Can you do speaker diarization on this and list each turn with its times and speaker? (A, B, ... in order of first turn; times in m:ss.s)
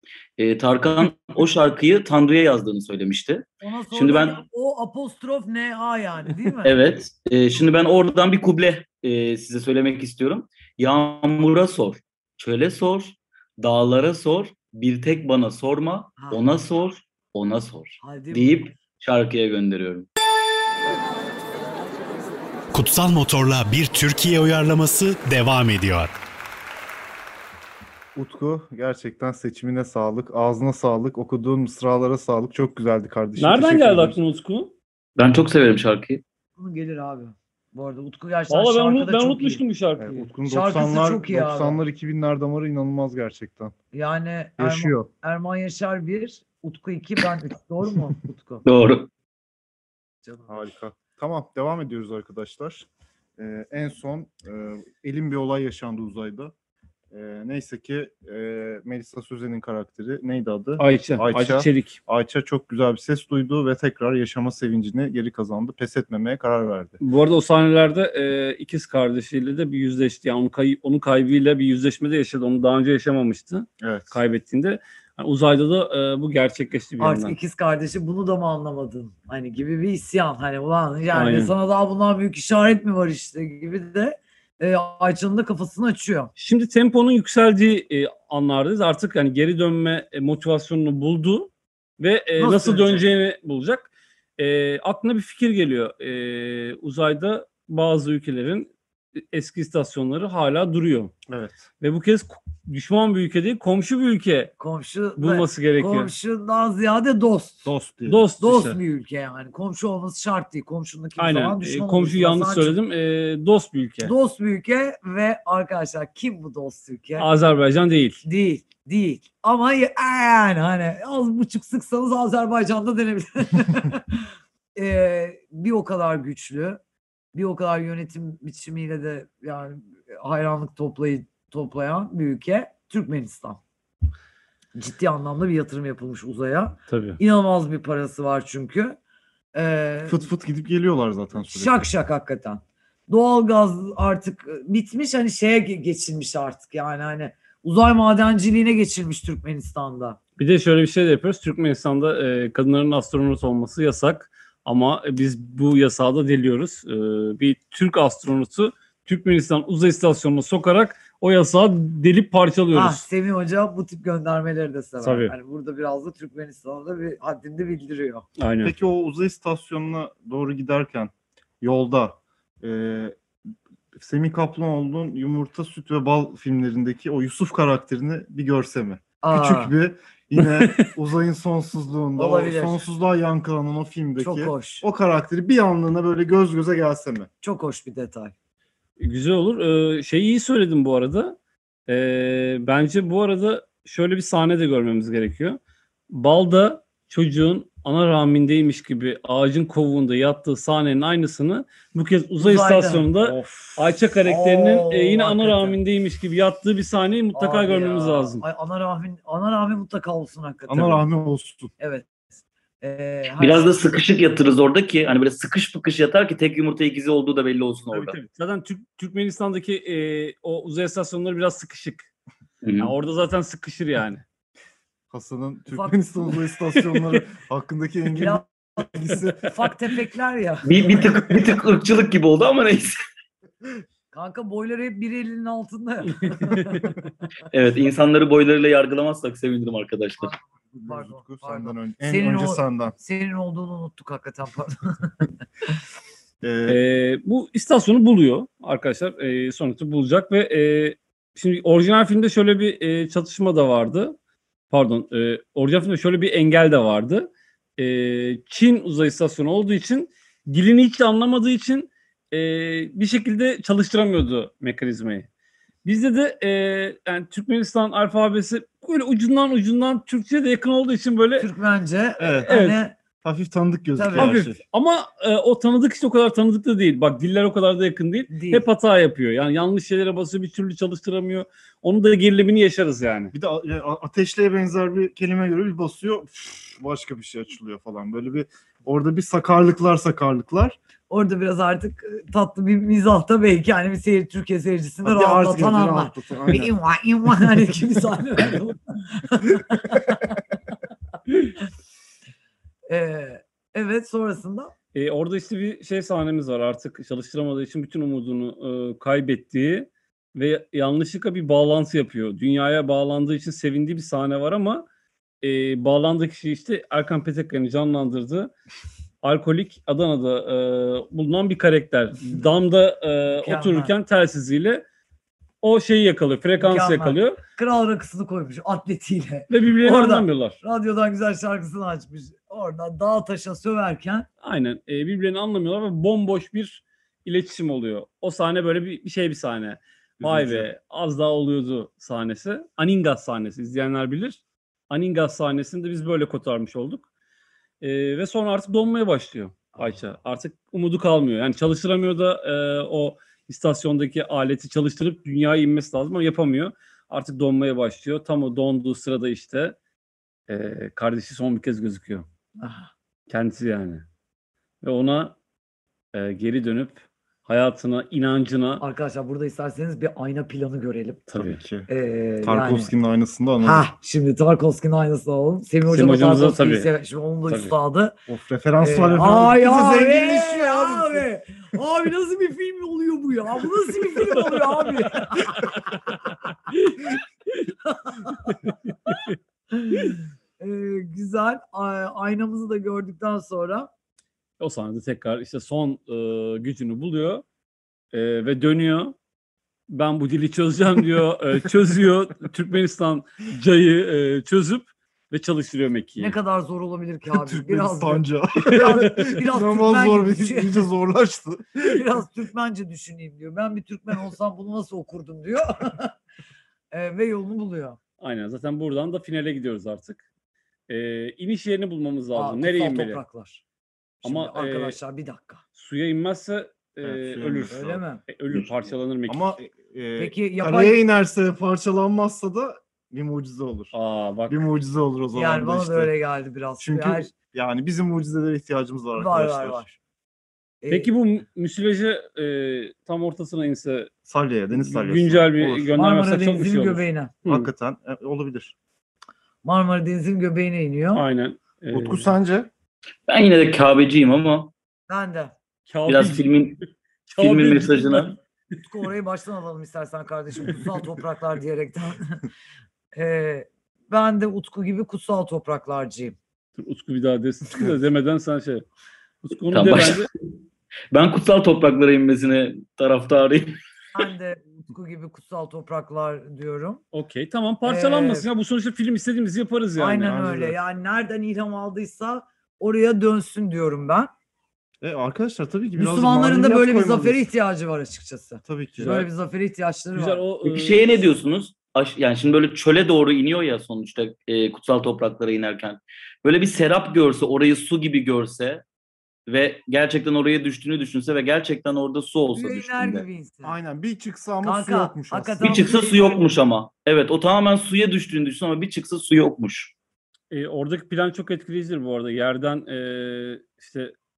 0:00.4-0:04.4 A
0:03.6-0:06.7 B
0:06.6-0:20.1 A
0:16.2-0:16.4 B
0:18.0-0:18.7 B
0:22.7-0:26.1 C
0:28.1-0:34.2 D
0:33.4-0:34.7 E
0:35.2-0:36.2 A
0:36.6-0:39.6 B
0:38.5-0:40.3 E
0:40.0-0:43.7 D
0:40.4-0:41.8 B
0:43.9-0:48.6 B
0:44.6-0:45.1 D
0:48.6-0:49.1 A
0:50.5-0:56.5 D
0:57.1-1:07.0 D
1:00.8-1:02.0 E
1:07.0-1:17.4 E
1:13.8-1:14.1 D
1:17.0-1:26.3 B
1:21.1-1:21.5 E
1:26.4-1:41.1 E
1:32.4-1:33.0 B
1:41.3-1:41.6 D
1:41.8-1:44.5 E
1:44.6-1:47.7 B
1:45.2-1:46.1 E
1:47.6-1:48.2 D
1:48.1-1:48.8 E
1:48.4-1:52.8 B
1:51.2-1:54.1 E
1:54.0-1:57.3 B
1:57.2-1:58.2 E
1:58.2-2:06.8 B
2:07.3-2:13.6 B
2:14.8-2:19.0 B
2:16.9-2:17.2 E
2:19.5-2:20.2 B
2:20.1-2:21.9 D
2:21.4-2:30.2 B
2:30.4-2:43.0 E
2:42.7-2:48.2 B
2:45.0-2:45.3 E
2:48.4-2:48.7 E
2:48.6-2:53.2 D
2:53.9-3:07.3 D
2:59.2-2:59.7 B
3:00.4-3:00.9 E
3:02.1-3:02.8 B
3:04.2-3:04.8 B
3:07.4-3:08.3 B
3:09.0-3:11.4 E
3:11.9-3:15.6 E
3:16.1-3:28.4 E
3:22.4-3:23.1 B
3:23.2-3:23.7 D
3:24.2-3:25.8 B
3:27.3-3:31.0 B
3:30.7-3:31.7 D
3:31.8-3:32.1 B
3:32.8-3:34.0 B
3:33.4-3:38.2 A
3:37.9-3:42.1 E
3:42.6-3:42.9 A
3:42.8-3:44.2 E
3:45.1-3:49.4 D
3:45.7-3:46.0 B
3:46.7-3:47.2 E
3:48.2-3:48.9 B
3:49.4-3:50.8 B
3:50.6-3:53.0 A
3:54.1-3:57.0 B
3:56.2-3:56.9 E
3:57.5-4:00.3 A
4:00.2-4:05.1 B
4:00.8-4:03.0 D
4:06.4-4:06.8 D
4:06.7-4:14.1 E
4:14.7-4:25.3 E
4:25.8-4:31.5 E
4:31.4-4:33.0 B
4:32.2-4:32.5 D
4:32.5-4:32.8 E
4:33.2-4:34.6 D
4:34.0-4:34.3 B
4:34.1-4:43.3 E
4:38.3-4:38.6 B
4:43.3-4:50.8 D
4:51.1-5:00.4 B
4:55.0-4:56.7 D
5:02.9-5:04.7 B
5:04.9-5:14.8 E
5:15.4-5:18.5 E
5:19.2-5:24.8 E
5:23.4-5:23.9 B
5:25.6-5:27.4 E
5:26.6-5:34.3 B
5:29.5-5:30.6 E
5:34.4-5:47.0 E
5:40.2-5:40.7 D
5:47.8-5:59.8 E
6:00.5-6:02.2 E
6:02.6-6:02.9 B
6:03.3-6:04.0 E
6:04.8-6:05.4 E
6:06.1-6:08.8 E
6:08.8-6:11.2 B
6:11.3-6:11.6 E
6:11.4-6:11.9 D
6:11.9-6:12.9 B
6:12.4-6:13.9 D
6:13.6-6:18.2 B
6:15.9-6:16.9 E
6:18.3-6:21.2 D
6:18.8-6:26.2 B
6:25.2-6:25.7 E
6:26.7-6:27.6 E
6:27.8-6:28.6 B
6:28.6-6:29.3 E
6:29.7-6:33.9 B
6:34.6-6:37.4 E
6:38.1-6:39.1 E
6:39.9-6:46.4 E
6:46.2-6:50.9 B
6:47.3-6:52.0 D
6:48.8-6:49.4 E
6:51.8-6:56.1 B
6:56.9-6:58.0 B
6:58.2-7:00.2 E
7:00.9-7:03.2 E
7:02.4-7:03.6 B
7:04.2-7:05.6 B
7:04.2-7:05.0 E
7:05.8-7:09.6 E
7:07.0-7:08.7 D
7:07.7-7:08.2 B
7:09.3-7:13.9 D
7:10.2-7:11.0 B
7:13.9-7:14.6 E
7:14.5-7:16.1 D
7:15.3-7:17.3 B
7:16.8-7:20.0 D
7:19.1-7:19.8 B
7:20.8-7:21.1 B
7:20.9-7:24.1 E
7:24.2-7:25.9 D
7:24.7-7:27.7 E
7:25.9-7:27.3 B
7:27.4-7:28.8 D
7:29.6-7:31.2 B
7:31.1-7:32.3 E
7:31.9-7:32.7 D
7:33.3-7:34.7 A
7:35.1-7:35.5 B
7:35.9-7:38.4 E
7:36.1-7:36.8 A
7:37.4-7:38.4 A
7:38.8-7:42.4 B
7:43.1-7:46.4 B
7:46.8-7:48.8 E
7:49.4-7:50.3 E
7:49.7-7:50.3 A
7:51.1-7:53.8 A
7:54.1-7:57.0 B
7:57.1-8:00.4 E
7:57.8-7:58.5 B
8:00.0-8:04.3 B
8:00.2-8:00.8 D
8:05.0-8:07.5 D
8:06.0-8:10.4 B
8:08.6-8:09.2 D
8:09.0-8:09.3 E
8:10.1-8:11.2 E
8:10.6-8:18.8 A
8:19.5-8:23.2 A
8:22.5-8:23.8 B
8:23.6-8:25.9 D
8:24.6-8:26.4 B
8:25.6-8:29.9 A
8:30.5-8:34.1 E